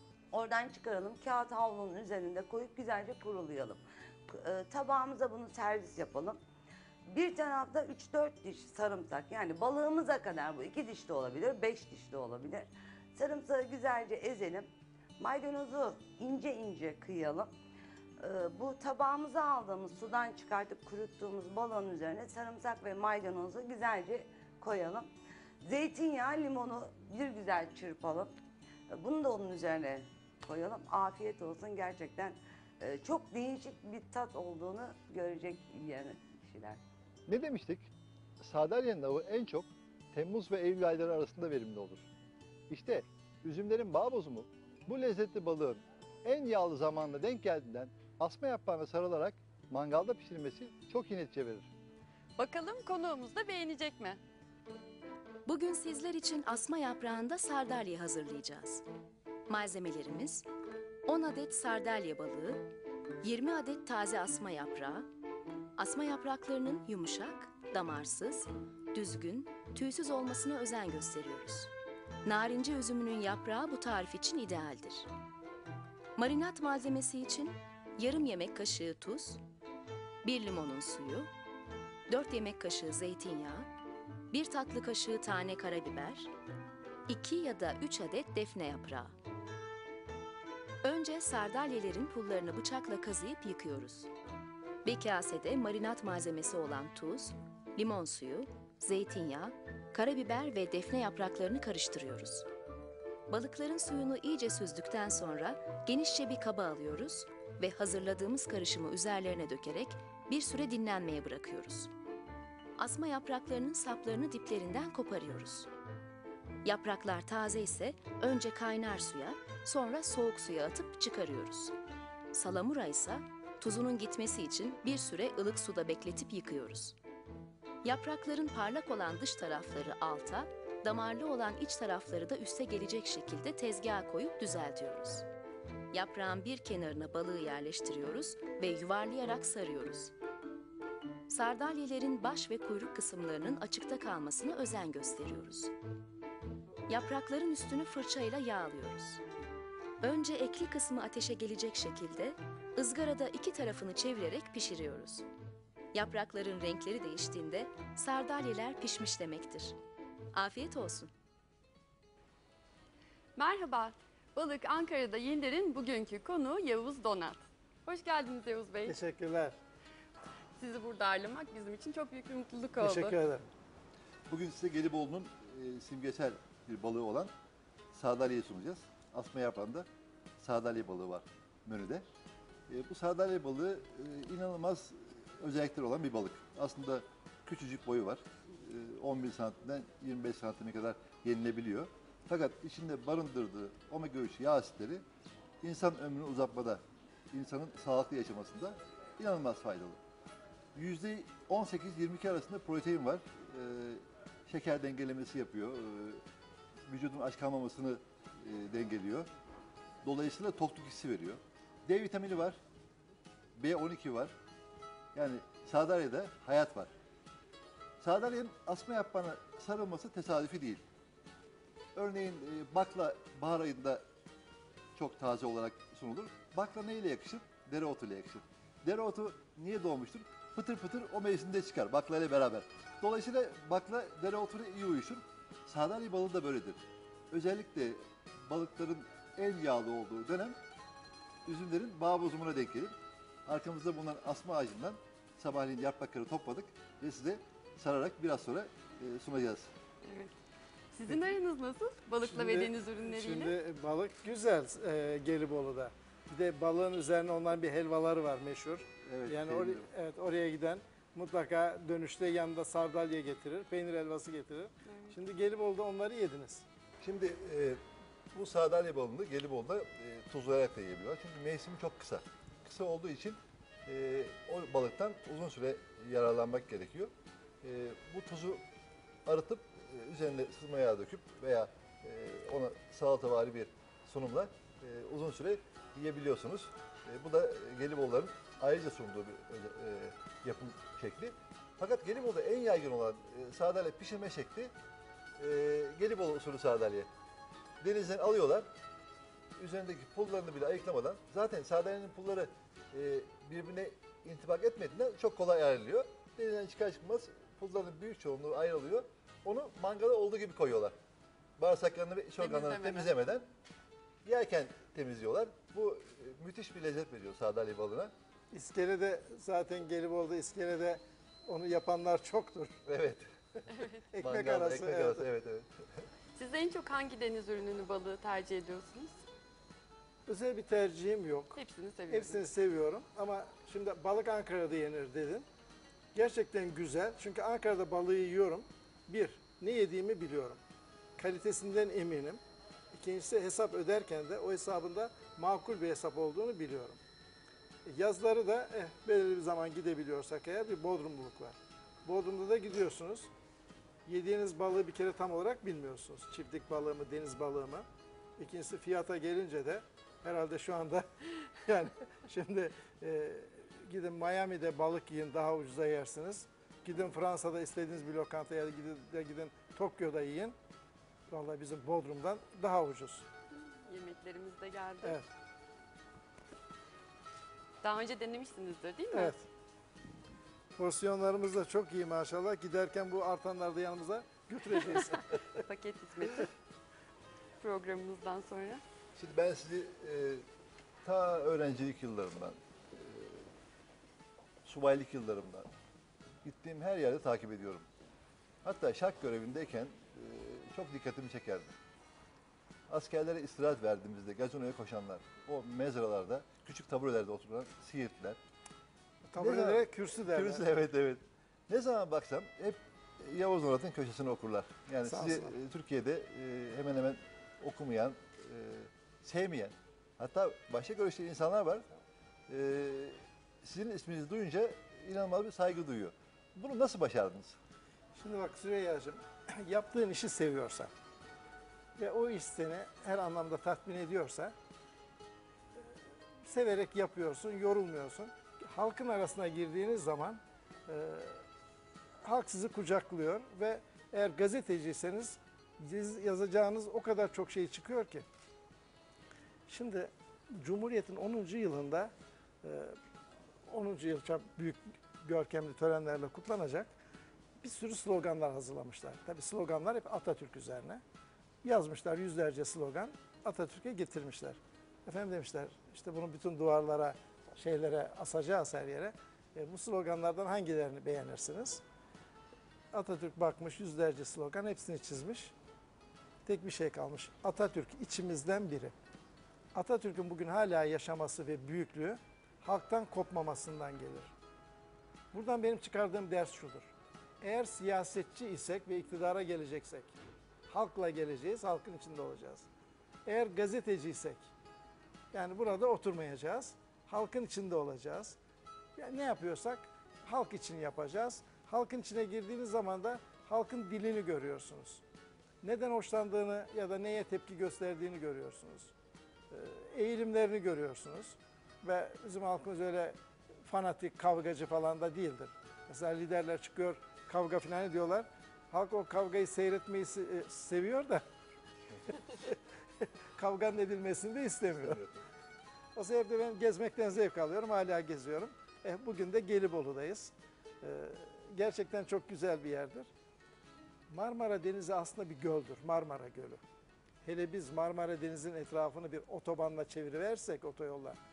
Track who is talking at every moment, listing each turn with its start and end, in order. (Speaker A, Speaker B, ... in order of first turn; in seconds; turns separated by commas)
Speaker A: 0.3-6.4, Speaker A: 7.1-17.5, Speaker A: 18.2-25.1, Speaker A: 25.6-28.3, Speaker A: 28.9-36.8, Speaker B: 37.3-42.1, Speaker B: 42.7-51.7, Speaker C: 52.4-54.2, Speaker D: 55.5-58.8, Speaker D: 59.5-60.5, Speaker D: 61.1-62.7, Speaker D: 63.2-65.1, Speaker D: 65.8-71.7, Speaker D: 72.2-75.1, Speaker D: 76.2-79.4, Speaker D: 80.2-81.3, Speaker D: 82.1-83.7, Speaker D: 84.3-86.3, Speaker D: 87.1-89.2, Speaker D: 90.8-94.1, Speaker D: 94.8-102.5, Speaker D: 103.3-111.9, Speaker D: 112.8-115.7, Speaker D: 116.6-121.7, Speaker D: 122.3-127.0, Speaker D: 127.8-135.3, Speaker D: 135.9-140.1, Speaker D: 141.3-145.7, Speaker D: 146.9-149.2, Speaker D: 150.0-155.3, Speaker D: 155.9-159.8, Speaker D: 160.3-161.1, Speaker C: 163.4-169.0, Speaker E: 168.9-169.6, Speaker C: 170.6-173.2, Speaker E: 172.8-173.5, Speaker B: 174.3-177.3, Speaker B: 177.9-179.9, Speaker B: 180.4-182.1, Speaker B: 182.7-195.0, Speaker B: 195.6-200.0, Speaker B: 200.8-206.2, Speaker B: 206.9-209.3, Speaker B: 210.0-212.6, Speaker B: 213.6-214.3, Speaker B: 215.1-216.9, Speaker B: 218.0-220.8, Speaker B: 221.9-224.0, Speaker B: 224.9-240.6, Speaker B: 241.5-249.7, Speaker C: 250.0-250.3, Speaker C: 250.9-253.6, Speaker E: 252.2-266.6, Speaker B: 259.1-259.9, Speaker C: 264.9-265.2, Speaker B: 267.0-278.6, Speaker B: 279.3-294.7, Speaker B: 295.4-297.1, Speaker B: 297.8-298.7, Speaker B: 299.6-310.9, Speaker B: 311.6-313.5, Speaker C: 312.4-313.2, Speaker B: 314.2-318.1, Speaker E: 318.5-322.8, Speaker B: 322.9-323.7, Speaker C: 323.7-324.0, Speaker E: 324.1-325.3, Speaker B: 324.2-325.9, Speaker C: 326.4-329.2, Speaker E: 330.3-331.6, Speaker C: 331.6-332.4, Speaker E: 332.1-335.5, Speaker E: 336.1-340.6, Speaker E: 341.2-342.4, Speaker E: 342.9-347.0, Speaker E: 347.9-353.3, Speaker E: 354.1-357.9, Speaker E: 358.4-370.6, Speaker E: 371.3-373.3, Speaker C: 373.6-375.2, Speaker C: 377.8-379.4, Speaker E: 379.1-379.4, Speaker E: 380.8-385.6, Speaker C: 384.9-386.5, Speaker C: 387.6-388.8, Speaker B: 389.2-390.4, Speaker B: 391.0-393.5, Speaker B: 394.6-395.7, Speaker B: 396.4-397.9, Speaker B: 398.6-401.8, Speaker B: 402.9-408.4, Speaker E: 409.2-410.7, Speaker B: 409.4-421.9, Speaker E: 415.1-415.6, Speaker B: 422.5-427.6, Speaker E: 428.2-430.9, Speaker E: 432.0-434.5, Speaker E: 435.8-441.4, Speaker E: 442.2-448.3, Speaker E: 449.7-452.1, Speaker E: 452.6-453.0, Speaker E: 453.7-456.9, Speaker E: 457.6-461.0, Speaker E: 461.6-471.8, Speaker E: 472.9-475.5, Speaker E: 476.5-478.9, Speaker E: 479.8-484.3, Speaker E: 485.3-490.1, Speaker E: 490.7-492.7, Speaker E: 493.3-494.5, Speaker E: 495.3-498.4, Speaker E: 499.0-505.0, Speaker E: 505.6-508.9, Speaker E: 509.5-521.2, Speaker E: 522.3-522.6, Speaker E: 523.4-525.0, Speaker B: 524.8-525.2, Speaker E: 526.0-533.1, Speaker E: 534.1-536.6, Speaker E: 537.2-541.2